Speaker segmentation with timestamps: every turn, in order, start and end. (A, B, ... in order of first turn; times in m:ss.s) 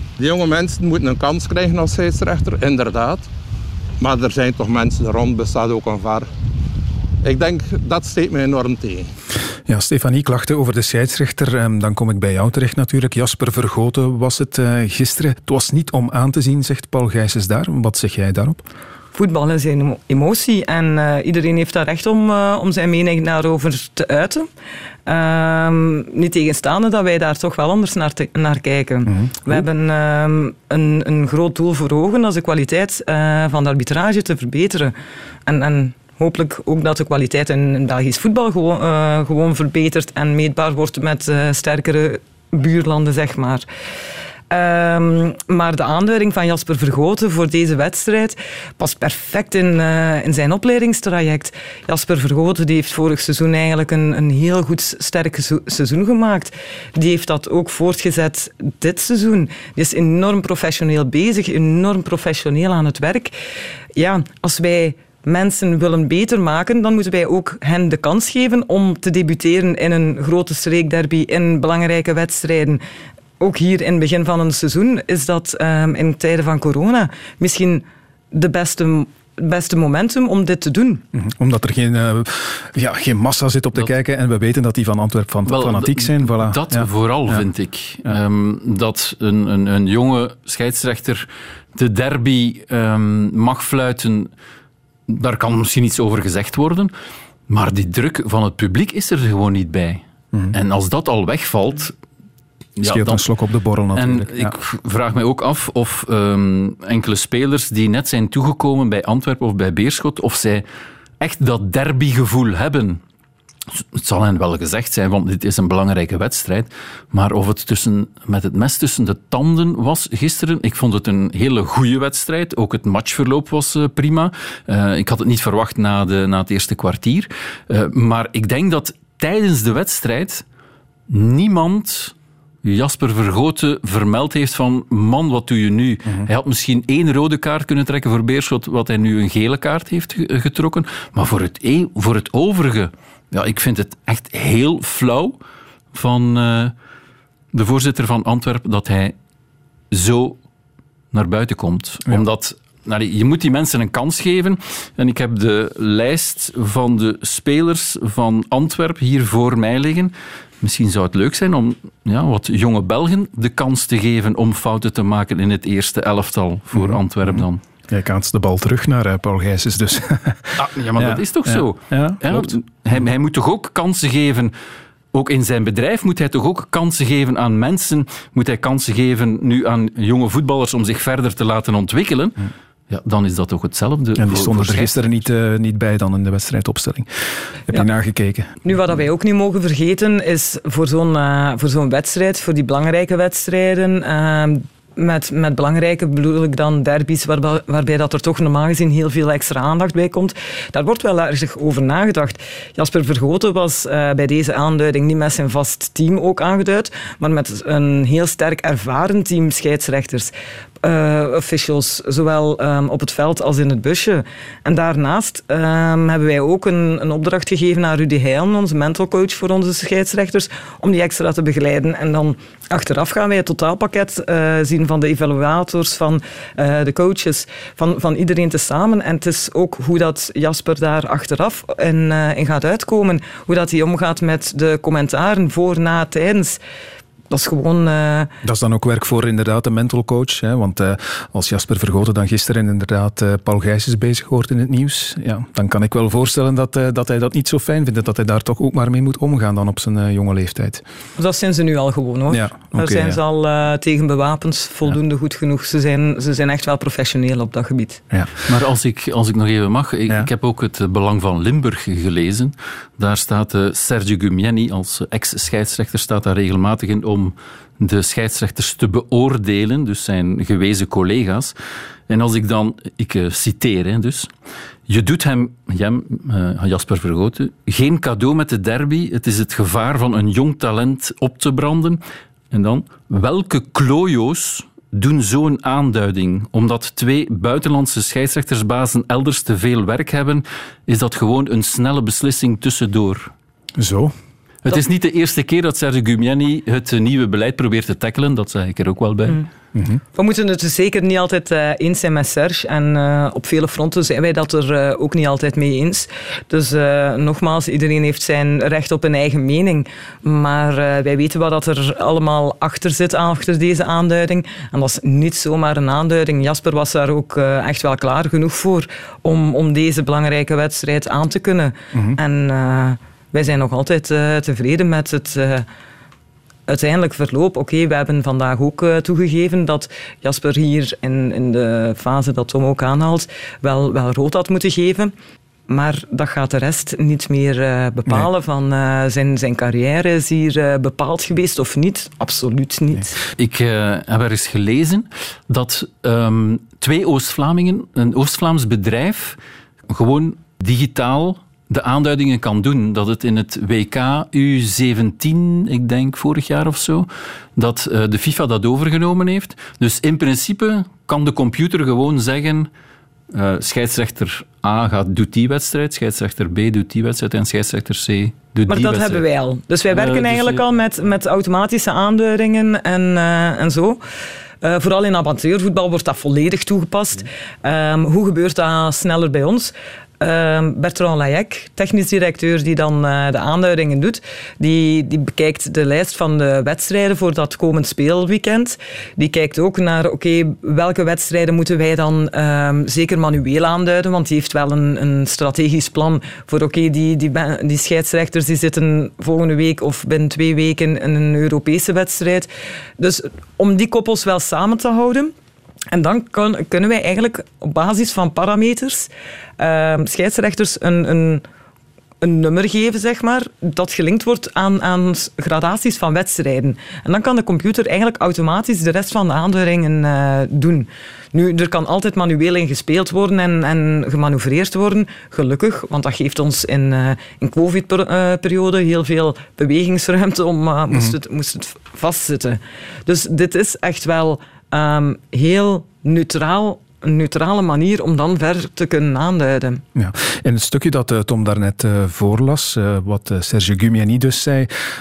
0:00.2-0:03.3 A
0:04.0-0:06.3 A
0:07.2-0:09.1 A
0:09.7-0:18.6 B
0:19.1-0:24.5 C
0:25.0-0:34.9 C
0:29.1-0:29.6 B
0:35.4-0:43.6 C
0:44.5-1:03.3 C
1:04.0-1:12.8 C
1:13.4-1:21.0 C
1:21.1-1:27.4 B
1:25.5-1:34.3 D
1:35.1-1:36.9 D
1:37.5-1:41.9 D
1:42.8-1:43.3 D
1:42.8-1:44.5 B
1:43.9-1:50.6 D
1:51.2-1:53.0 D
1:53.8-2:10.4 D
2:11.1-2:25.4 D
2:25.9-2:26.7 D
2:27.5-2:29.1 D
2:29.9-2:30.4 D
2:31.1-2:47.6 D
2:46.7-2:52.5 B
2:50.6-2:54.5 D
2:55.1-3:02.4 D
3:02.9-3:05.0 D
3:04.2-3:07.1 B
3:07.7-3:08.6 B
3:08.6-3:56.6 C
3:57.3-3:58.3 C
3:58.4-4:10.8 B
4:11.2-4:18.0 C
4:12.3-4:13.2 B
4:18.5-4:31.5 D
4:32.1-4:34.3 D
4:34.9-4:53.3 D
4:53.8-4:54.1 B
4:54.6-4:59.4 D
4:59.7-5:00.0 B
5:00.1-5:25.6 C
5:21.9-5:22.2 B
5:26.7-5:35.1 C
5:35.7-5:43.1 C
5:43.4-5:49.4 D
5:49.9-6:02.7 D
6:03.3-6:09.2 D
6:08.7-6:14.0 C
6:09.9-6:10.6 D
6:14.6-6:45.3 C
6:45.9-6:51.4 C
6:52.2-7:19.8 C
7:19.9-7:24.7 B